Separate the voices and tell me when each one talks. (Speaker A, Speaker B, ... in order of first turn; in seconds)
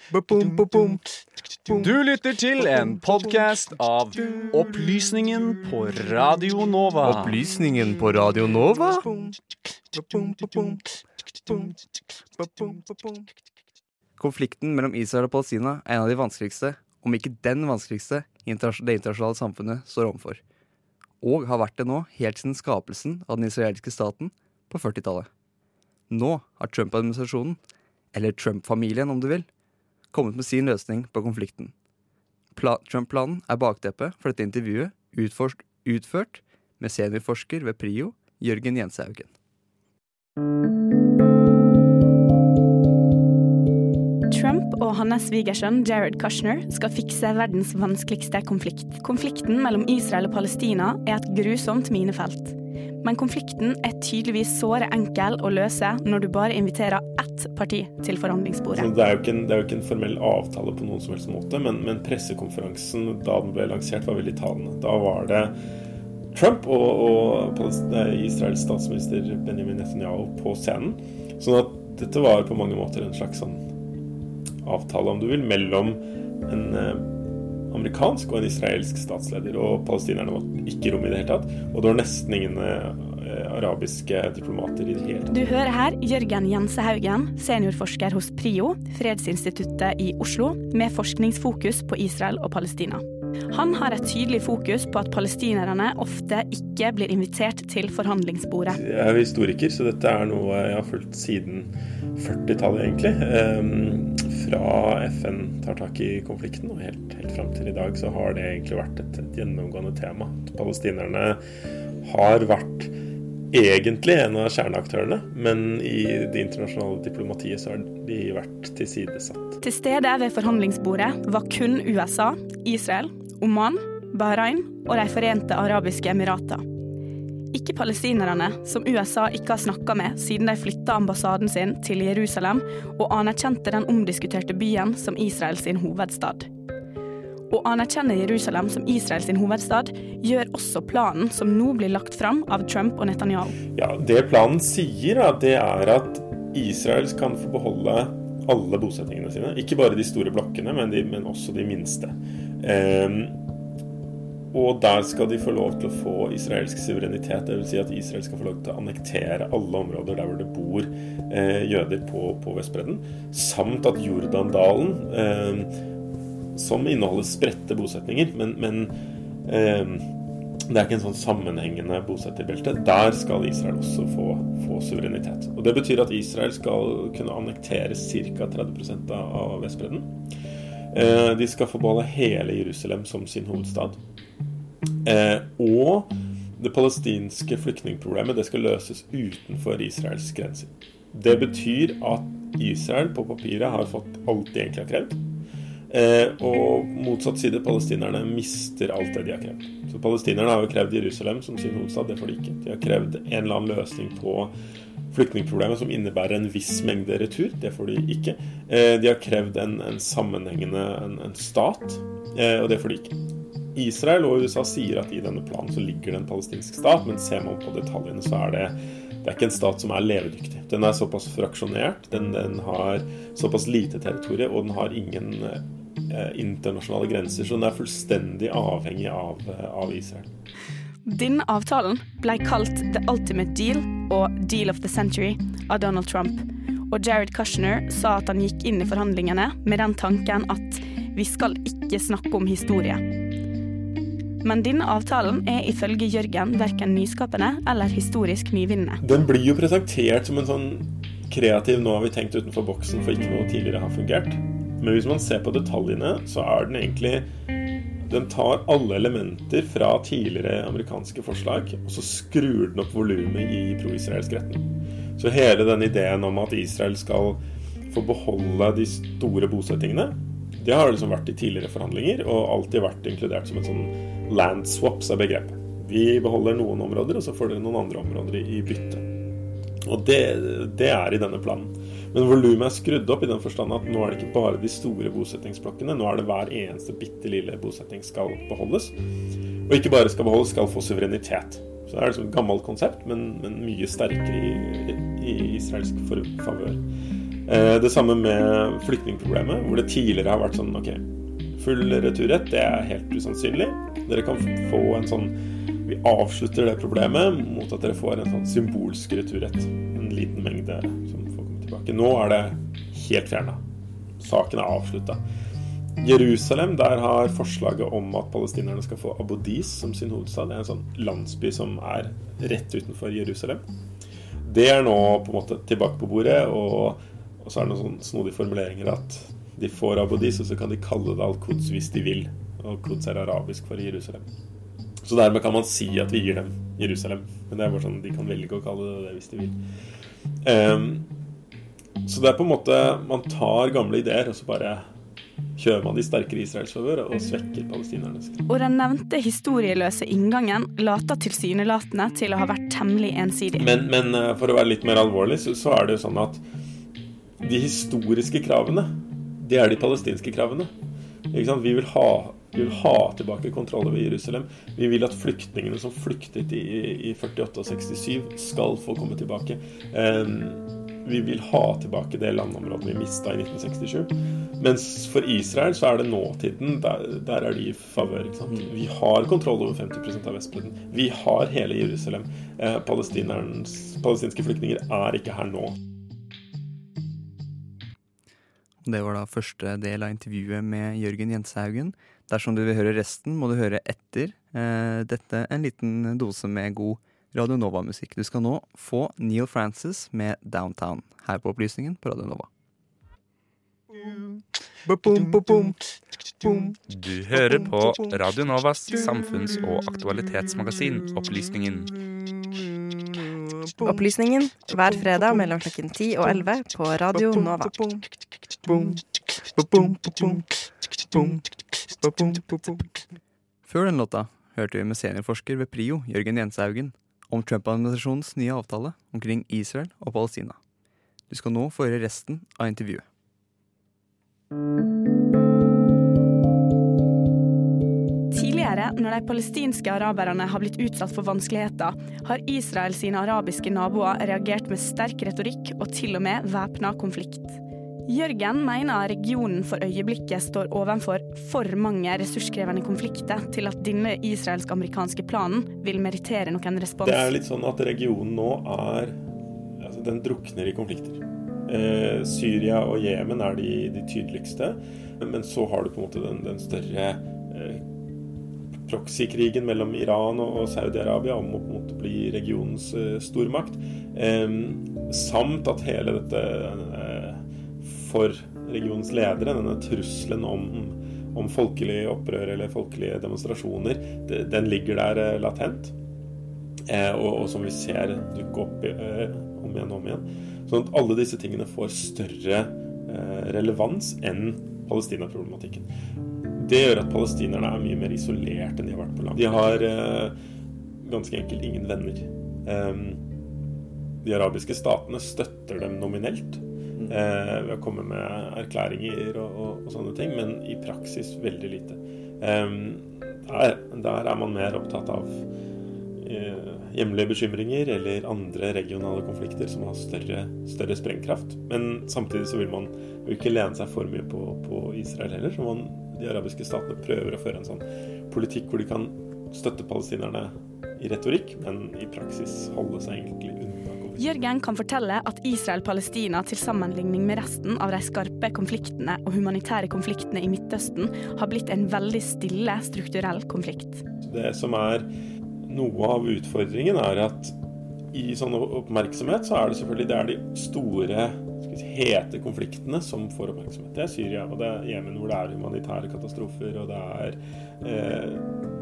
Speaker A: 1.7-7.4
Speaker B: 7.0-9.1, 14.2-20.4, 21.2-25.3, 26.1-27.6, 28.1-29.5, 30.1-31.7, 32.5-39.3, 388.8-402.5, 423.7-430.6, 431.3-433.0
Speaker C: 44.3-58.9, 85.3-98.8, 119.6-126.6, 127.5-136.5, 137.5-143.6, 231.1-243.0, 244.4-249.0, 348.5-353.7, 438.3-457.3, 534.2-544.0
Speaker D: 58.7-65.5, 66.3-73.6, 74.6-77.0, 77.7-85.4, 98.7-111.4, 112.0-112.9, 113.5-119.6, 143.8-153.3, 154.5-165.7, 166.6-168.9, 169.5-170.1, 170.7-180.1, 180.9-184.0, 185.0-195.2, 195.9-204.5, 205.1-213.2, 213.7-230.3, 249.0-257.2, 258.1-279.0, 279.8-288.9, 289.7-296.8, 297.5-301.0, 301.6-305.4, 305.9-313.6, 314.2-315.2, 316.0-323.6, 324.5-334.3, 335.1-339.6, 340.4-341.1, 342.1-344.8, 345.6-348.4, 353.6-356.4, 357.4-360.7, 361.3-385.8, 457.0-459.2, 459.8-467.8, 468.9-485.9, 486.9-495.9, 496.6-500.3, 501.0-503.2, 504.2-515.4, 516.2-534.3, 544.2-545.1, 545.7-547.5, 548.1-558.5
Speaker E: 405.1-405.7, 413.8-418.0, 418.7-419.0, 419.6-420.4, 422.0-422.8
Speaker F: 406.9-411.9